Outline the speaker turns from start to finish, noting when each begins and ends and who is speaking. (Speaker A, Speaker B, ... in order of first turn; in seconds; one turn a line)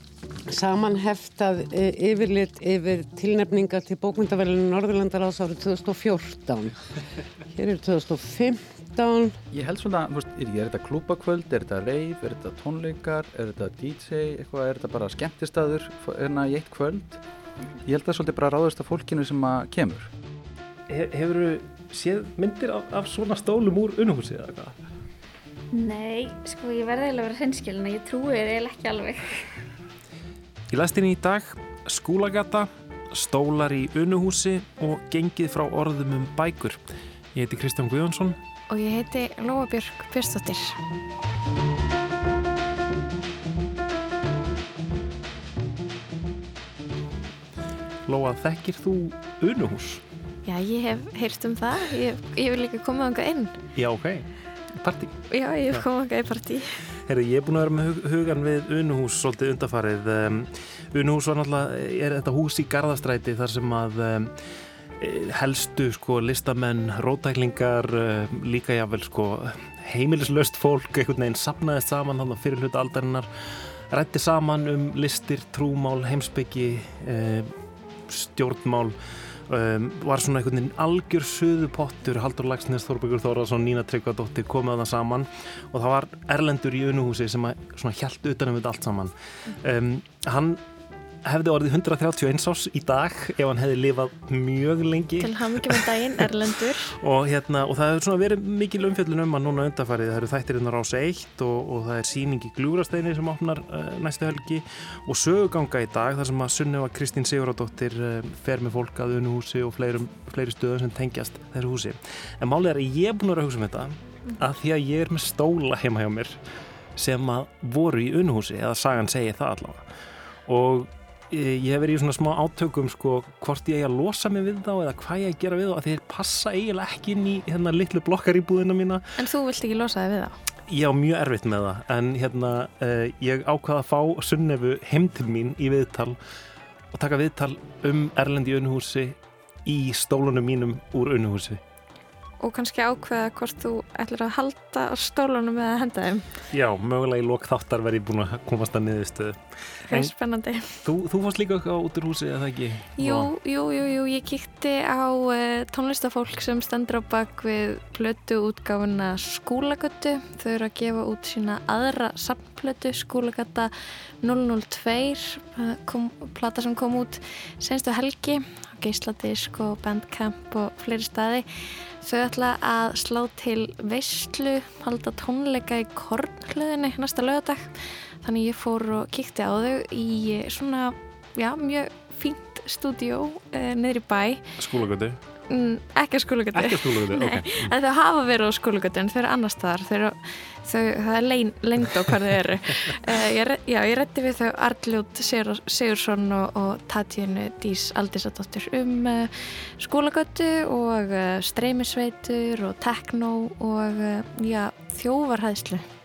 Speaker A: 0.5-6.8
Speaker A: 7.5-9.4
Speaker B: 9.5-17.2
Speaker B: 17.8-20.1
Speaker C: 20.9-24.7
Speaker D: 25.7-29.6
Speaker C: 30.7-36.8
Speaker C: 37.3-38.4
Speaker E: 38.7-40.8
Speaker C: 48.0-50.0
Speaker E: 50.4-53.5
Speaker C: 53.7-55.2
Speaker E: 55.3-56.8
Speaker C: 57.0-64.3
Speaker C: 65.0-73.3
Speaker C: 73.9-77.5
Speaker C: 78.1-79.0
Speaker C: 79.5-90.6
Speaker C: 91.2-96.2
Speaker E: 95.2-96.9
Speaker C: 96.9-116.4
Speaker C: 117.0-119.8
Speaker C: 120.5-129.0
Speaker E: 129.2-130.4
Speaker C: 130.7-136.2
Speaker C: 136.9-141.6
Speaker E: 142.4-146.3
Speaker C: 146.5-150.1
Speaker E: 149.9-150.7
Speaker C: 150.8-153.3
Speaker E: 153.0-171.4
Speaker E: 172.0-184.4
Speaker C: 184.6-185.2
Speaker E: 185.5-205.8
Speaker C: 186.5-187.7